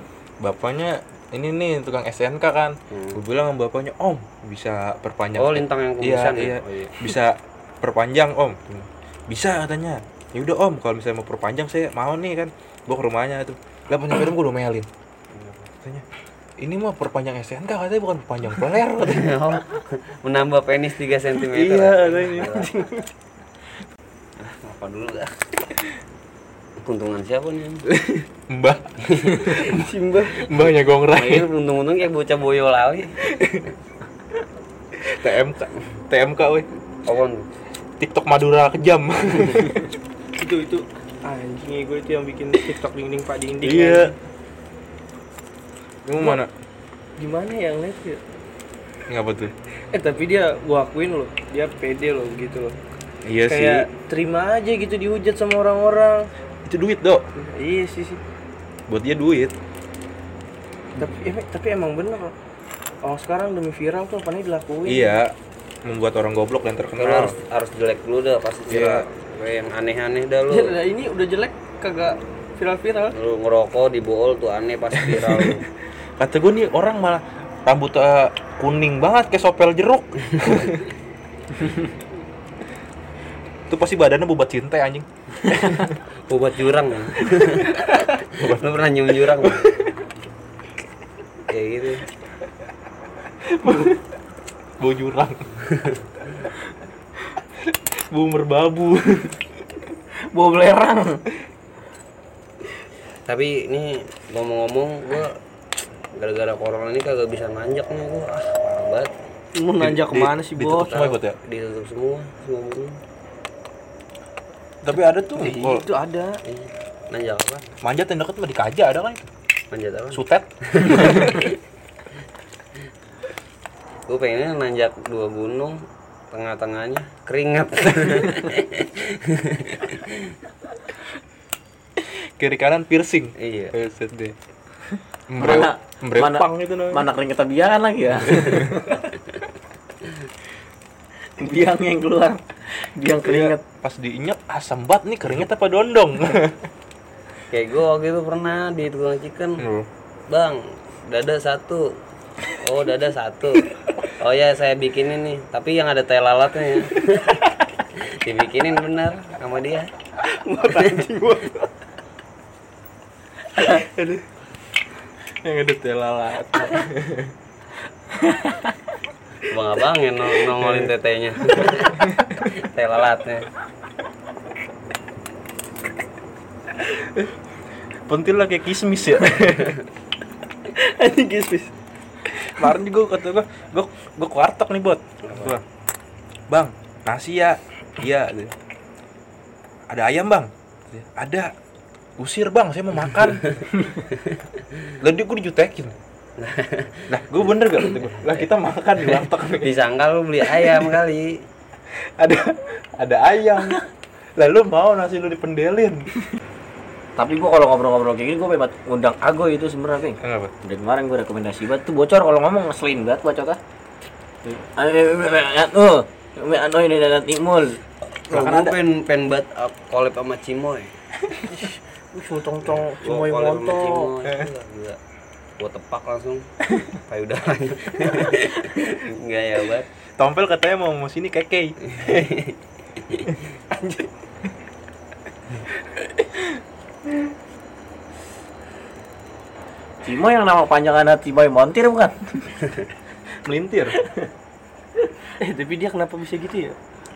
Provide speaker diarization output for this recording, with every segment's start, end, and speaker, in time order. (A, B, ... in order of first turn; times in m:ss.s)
0:00.4-0:14.9 A
0:02.9-0:03.2 B
0:05.4-0:07.1 B
0:15.3-0:15.7 B
0:16.6-0:19.4 A
0:19.0-0:22.7 B
0:21.5-0:22.6 A
0:22.4-0:23.1 C
0:24.4-0:25.4 B
0:26.8-0:27.9 B
0:27.9-0:29.7 A
0:29.1-0:29.7 B
0:29.6-0:30.5 C
0:30.4-0:31.5 A
0:31.1-0:33.2 B
0:33.3-0:33.6 A
0:35.0-0:36.7 A
0:37.0-0:37.5 B
0:38.0-0:39.9 A
0:40.4-0:44.1 C
0:43.6-0:44.1 A
0:46.0-0:46.5 A
0:47.2-0:48.2 C
0:49.1-0:49.5 A
0:49.9-0:52.8 C
0:53.2-0:53.9 A
0:53.5-0:56.3 C
0:56.7-0:57.3 A
0:57.4-0:58.2 C
0:58.9-0:59.6 A
1:01.0-1:02.4 C
1:03.0-1:05.2 C
1:04.9-1:05.3 A
1:05.8-1:07.4 A
1:07.0-1:10.8 B
1:08.7-1:09.0 A
1:10.5-1:13.2 C
1:13.1-1:15.7 B
1:15.1-1:15.6 A
1:16.2-1:20.8 A
1:23.7-1:26.0 A
1:26.3-1:29.7 B
1:28.4-1:28.6 A
1:29.4-1:29.9 A
1:31.5-1:32.0 B
1:33.6-1:34.0 A
1:34.8-1:35.5 A
1:35.7-1:36.0 B
1:37.7-1:39.4 A
1:40.3-1:41.2 D
1:43.3-1:45.4 B
1:46.1-1:49.1 B
1:49.6-1:51.2 C
1:49.8-1:51.4 A
1:50.9-1:53.0 B
1:54.8-1:55.9 A
1:55.4-1:56.4 C
1:56.4-1:57.7 B
1:57.8-1:59.3 A
1:59.7-2:01.6 B
2:00.1-2:01.4 A
2:04.1-2:10.4 B
2:12.4-2:14.4 A
2:13.4-2:13.7 B
2:14.9-2:17.1 A
2:15.4-2:19.0 D
2:18.3-2:18.7 A
2:21.4-2:23.6 D
2:23.3-2:26.6 A
2:27.5-2:29.6 B
2:29.6-2:29.9 A
2:30.3-2:37.4 B
2:38.0-2:39.9 B
2:40.2-2:41.7 C
2:43.6-2:44.2 A
2:45.4-2:47.3 A
2:49.5-2:53.5 B
2:50.6-2:50.9 A
2:58.1-2:59.8 A
3:00.7-3:01.7 C
3:02.5-3:05.6 A
3:06.5-3:08.6 A
3:09.9-3:11.5 A
3:12.2-3:13.7 A
3:13.5-3:14.4 B
3:15.0-3:16.0 A
3:16.4-3:17.1 B
3:17.1-3:19.7 A
3:18.2-3:18.5 B
3:19.6-3:21.4 B
3:22.2-3:23.9 A
3:24.4-3:26.1 A
3:27.2-3:33.6 D
3:30.2-3:30.5 A
3:34.4-3:37.8 D
3:38.3-3:40.9 B
3:38.3-3:38.8 A
3:41.4-3:44.1 C
3:43.0-3:45.0 B
3:45.6-3:49.9 B
3:50.2-3:52.4 A
3:51.9-3:53.3 B
4:00.0-4:02.6 D
4:03.4-4:04.0 A
4:05.4-4:06.8 C